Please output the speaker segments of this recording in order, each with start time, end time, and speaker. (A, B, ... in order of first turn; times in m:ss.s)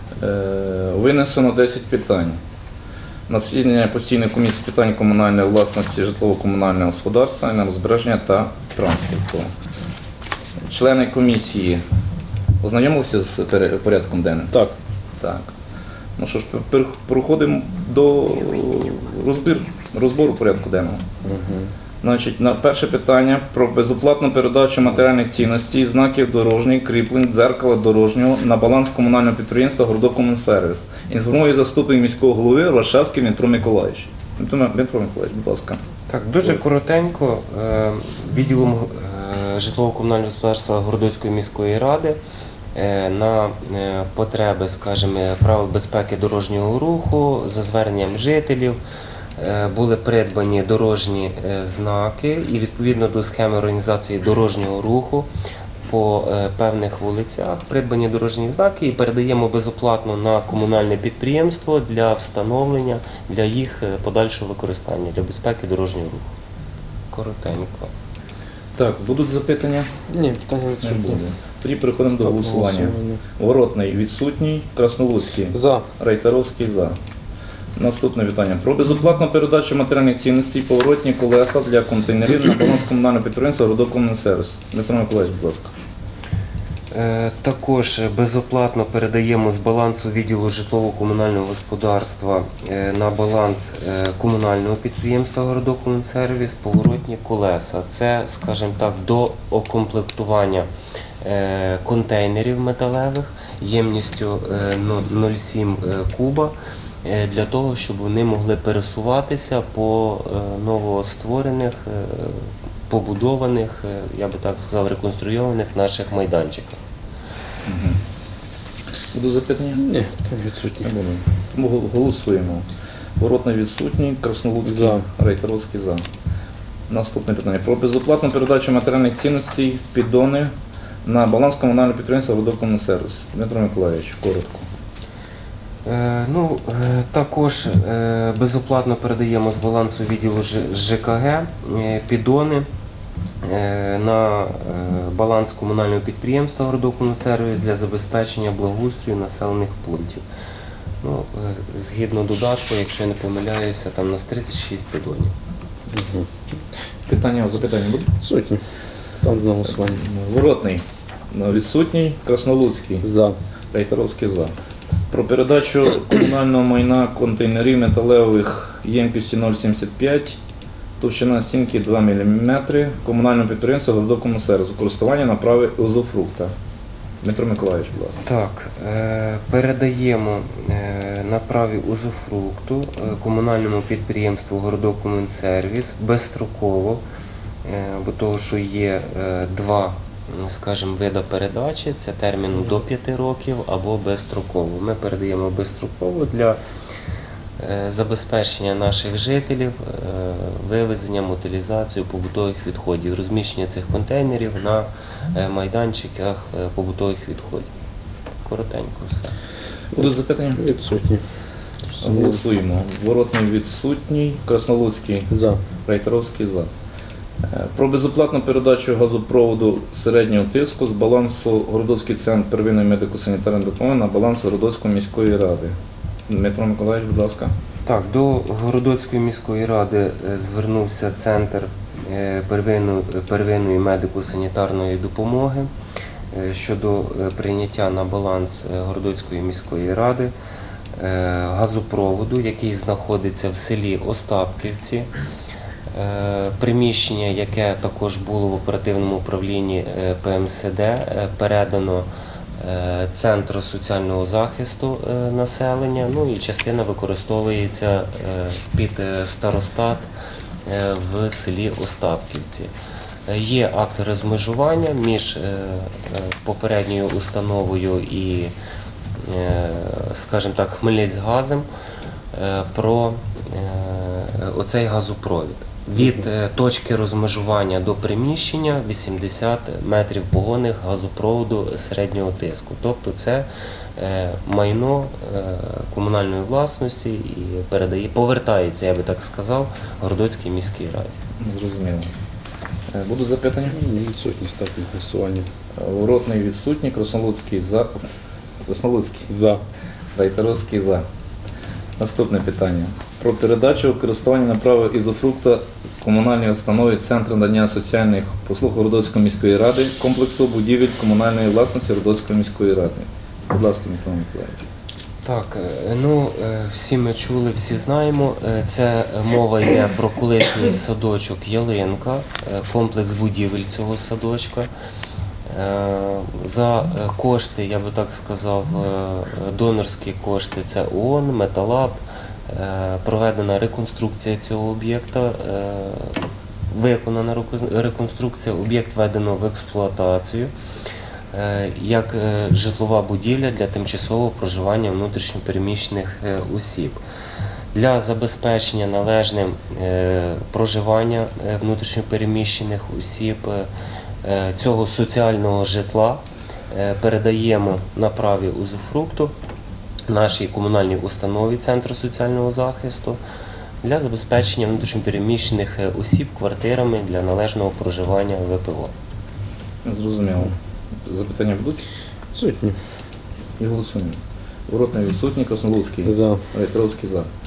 0:00.2-0:02.4 A
0:03.3-0:09.5 A
0:10.7-0:11.8 A
0:12.6-0:14.5 A
0:15.2-0:15.5 A
0:16.2-0:21.0 A
0:21.2-0:21.7 B
0:22.0-0:35.8 A
0:36.1-0:42.2 C
0:42.7-0:48.8 C
0:49.4-0:55.3 C
0:55.9-1:06.3 C
1:07.1-1:07.9 C
1:08.8-1:09.9 A
1:10.1-1:11.2 B
1:10.8-1:17.0 A
1:12.2-1:13.2 B
1:15.5-1:15.9 B
1:17.7-1:25.7 A
1:26.9-1:40.7 C
1:41.2-1:56.8 C
1:57.7-1:58.0 A
1:59.1-1:59.9 A
1:59.8-2:01.0 B
2:00.8-2:02.7 A
2:03.2-2:06.0 A
2:04.6-2:05.0 B
2:06.9-2:10.5 A
2:11.0-2:14.7 A
2:15.9-2:22.7 C
2:23.4-2:30.2 C
2:31.0-2:35.3 C
2:35.9-2:36.3 B
2:37.1-2:38.2 A
2:38.2-2:38.6 B
2:39.2-2:40.0 B
2:39.6-2:43.0 A
2:43.0-2:43.4 B
2:43.7-2:44.5 A
2:45.1-2:50.4 A
2:51.0-2:56.5 A
2:57.2-2:58.2 A
2:58.3-3:07.0 C
3:07.6-3:16.6 C
3:17.6-3:27.7 C
3:28.4-3:29.3 C
3:30.0-3:30.6 A
3:30.0-3:31.2 B
3:31.9-3:32.4 B
3:32.0-3:35.3 A
3:35.3-3:35.6 B
3:35.8-3:36.7 A
3:37.5-3:45.8 A
3:46.3-3:47.5 A
3:47.9-3:55.7 C
3:56.3-4:00.3 C
4:01.0-4:05.1 C
4:05.9-4:12.1 C
4:12.6-4:20.1 C
4:20.7-4:22.7 C
4:23.3-4:28.5 C
4:29.2-4:31.7 C
4:32.3-4:51.2 C
4:51.4-4:52.1 A
4:52.9-4:53.8 A
4:53.7-4:55.5 B
4:55.8-4:57.9 A
4:58.7-4:59.3 A
4:59.3-4:59.6 B
5:00.1-5:01.0 A
5:02.0-5:14.6 A
5:15.2-5:24.7 C
5:25.5-5:40.5 C
5:41.3-5:47.0 C
5:47.7-5:53.7 C
5:54.2-5:59.3 C
6:00.1-6:03.2 C
6:03.8-6:08.9 C
6:09.8-6:11.8 A
6:12.3-6:12.8 B
6:13.6-6:17.3 A
6:16.1-6:16.4 B